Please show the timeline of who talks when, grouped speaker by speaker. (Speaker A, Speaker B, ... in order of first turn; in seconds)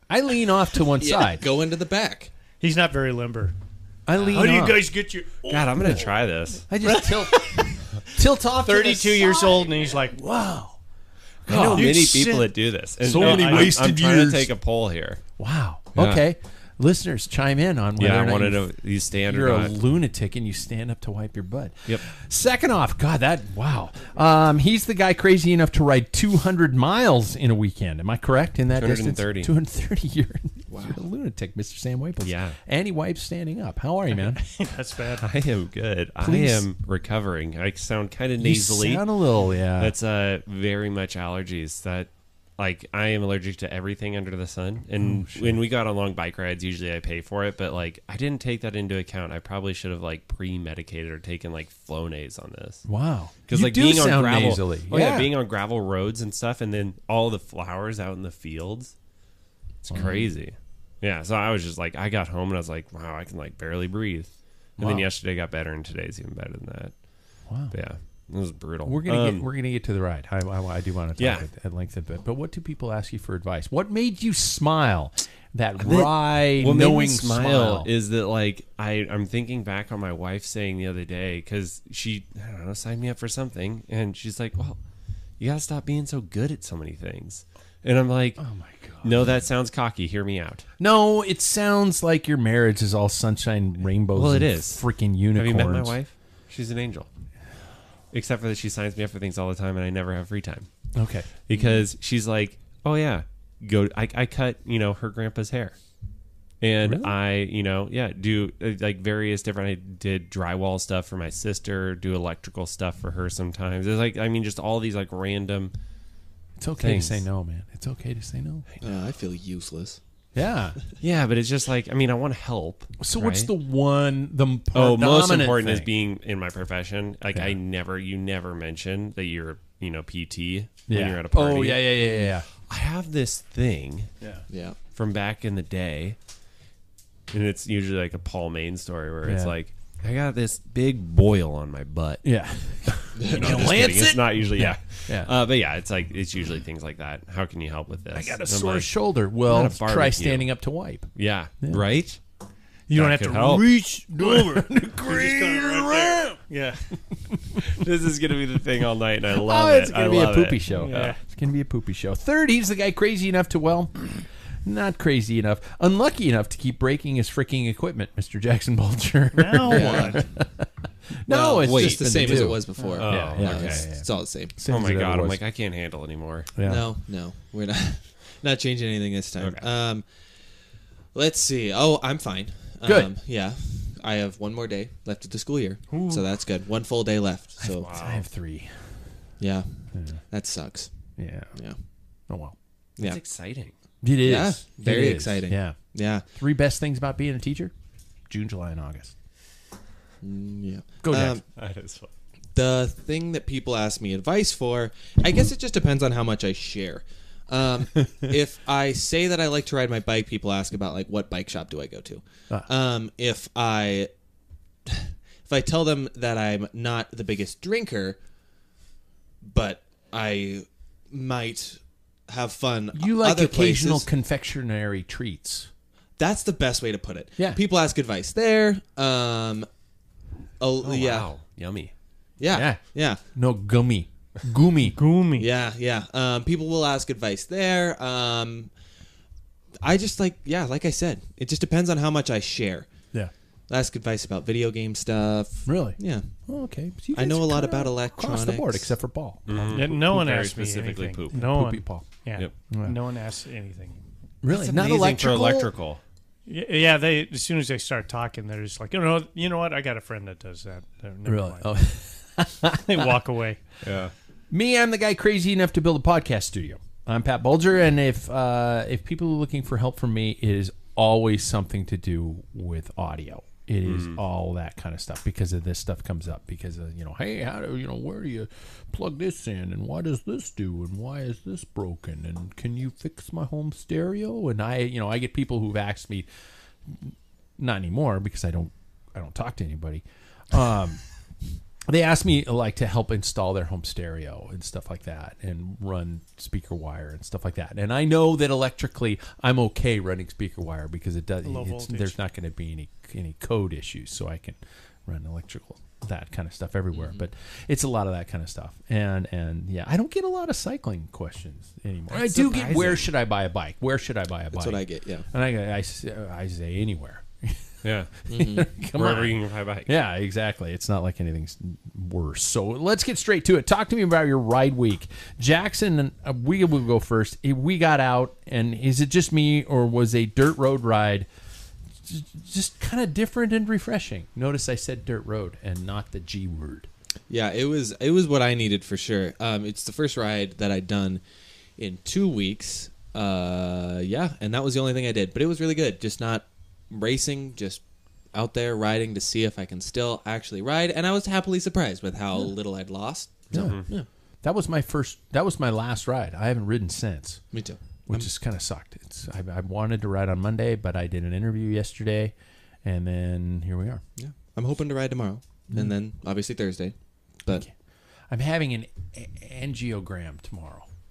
Speaker A: 0.1-1.4, 4.0-4.9, 6.5-10.8, 11.4-12.2, 13.0-14.5, 15.4-34.6, 36.2-36.7, 38.4-40.0, 45.0-45.6, 52.9-55.3, 59.9-60.3, 64.8-65.1, 67.5-67.8, 68.8-77.9, 88.4-89.4, 90.8-96.0, 100.9-101.3, 106.8-107.1, 116.6-118.7, 120.3-120.8, 123.0-125.9, 130.9-132.5, 134.2-134.5, 139.2-139.5, 142.2-145.3, 148.1-151.9, 153.7-157.6, 159.4-175.4, 176.5-176.9, 182.8-183.1, 185.9-186.2, 187.6-189.3, 189.9-190.2, 191.1-192.6, 194.0-199.2, 201.0-201.4, 222.9-225.7, 232.5-235.0, 245.7-250.0, 251.3-253.0, 254.4-255.7, 261.2-263.1, 264.5-286.3, 286.9-291.1, 291.9-331.3, 332.0-336.9, 353.5-364.0, 365.7-365.9, 367.5-367.8, 368.3-370.9
Speaker B: 1.0-2.3, 30.7-31.0, 101.5-101.8, 118.8-120.0, 134.5-134.8, 143.3-143.7, 169.7-170.4, 171.3-174.5, 176.6-187.9, 189.4-191.8, 194.2-196.2, 200.2-201.4, 202.5-214.1, 214.8-218.2, 219.4-224.1, 226.2-229.7, 230.6-231.3, 232.4-233.2, 235.4-238.8, 239.8-249.1, 306.9-307.3, 314.5-315.3, 318.3-318.7, 337.3-341.2, 341.8-354.1, 357.5-358.3, 364.1-367.6
Speaker C: 2.6-3.5, 4.3-6.1, 6.8-8.0, 8.6-10.2, 11.6-12.5, 13.1-13.8, 34.1-35.2, 152.9-157.0, 160.8-161.2, 169.3-170.2, 234.9-235.5, 249.7-254.0, 256.5-261.8, 262.8-263.6, 301.4-302.2
Speaker D: 5.5-6.6, 11.4-15.2, 15.9-16.2, 18.0-19.8, 28.8-29.5, 32.2-32.6, 35.2-39.2, 39.8-59.0, 59.8-69.5, 71.2-71.5, 75.8-84.8, 85.4-88.5, 89.0-90.7, 94.1-97.1, 98.1-106.0, 106.6-115.7, 116.8-117.2, 121.0-123.5, 124.7-134.1, 134.9-136.2, 137.3-153.8, 157.7-161.2, 171.6-176.5, 179.4-179.7, 187.8-188.2, 193.0-193.7, 201.5-202.1, 230.8-231.9, 249.5-251.3, 254.5-256.0, 263.8-264.1, 273.9-274.2, 312.1-313.1, 317.8-319.9, 353.5-353.9